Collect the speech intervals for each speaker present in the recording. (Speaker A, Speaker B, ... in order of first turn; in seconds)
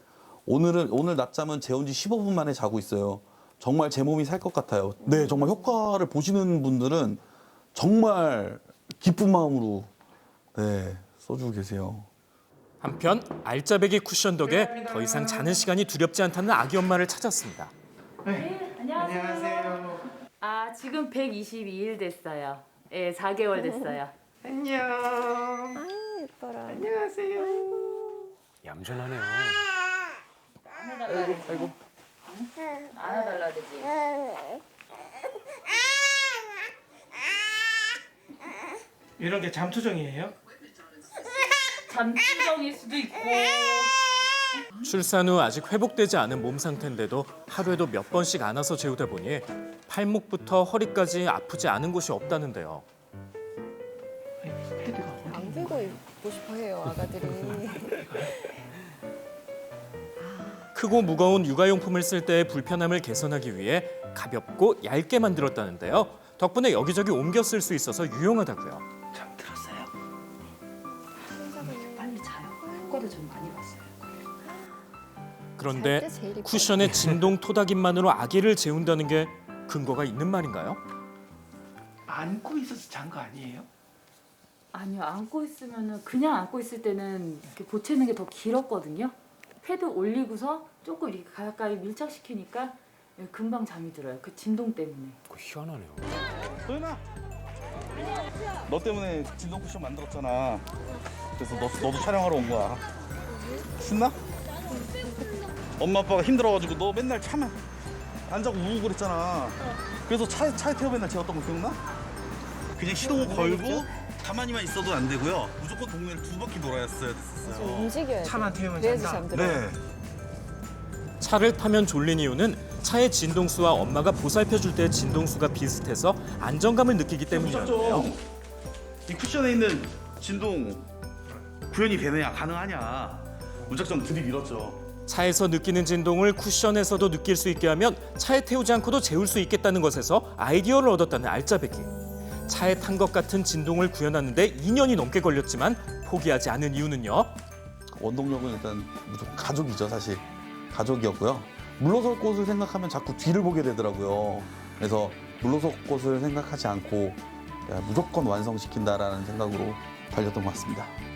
Speaker A: 0.5-7.2, 7.8-9.9, 10.6-12.1, 96.6-97.0, 98.7-100.7, 101.4-102.8, 103.8-104.2, 105.8-107.6, 108.3-111.8, 112.8-117.9, 119.3-119.8, 127.3-128.2, 129.1-130.9, 131.7-134.8, 148.0-160.9
Speaker B: 12.8-17.7, 44.8-52.9, 60.7-68.8, 75.6-80.8, 121.2-128.1, 135.1-147.3
Speaker C: 14.4-15.6, 18.2-20.0, 24.5-25.8, 26.7-27.5, 39.2-40.3, 54.4-56.0, 57.6-58.3, 69.1-69.8, 82.1-83.7, 113.0-113.8, 118.2-119.4
Speaker D: 18.3-24.1, 30.7-31.7, 32.3-34.0, 41.9-43.9, 71.6-74.1, 84.7-95.2
Speaker E: 23.7-23.9, 25.8-27.7, 55.2-58.5, 71.4-73.1, 75.7-76.9, 117.4-119.7
Speaker F: 28.6-29.6, 31.3-31.7, 95.3-96.2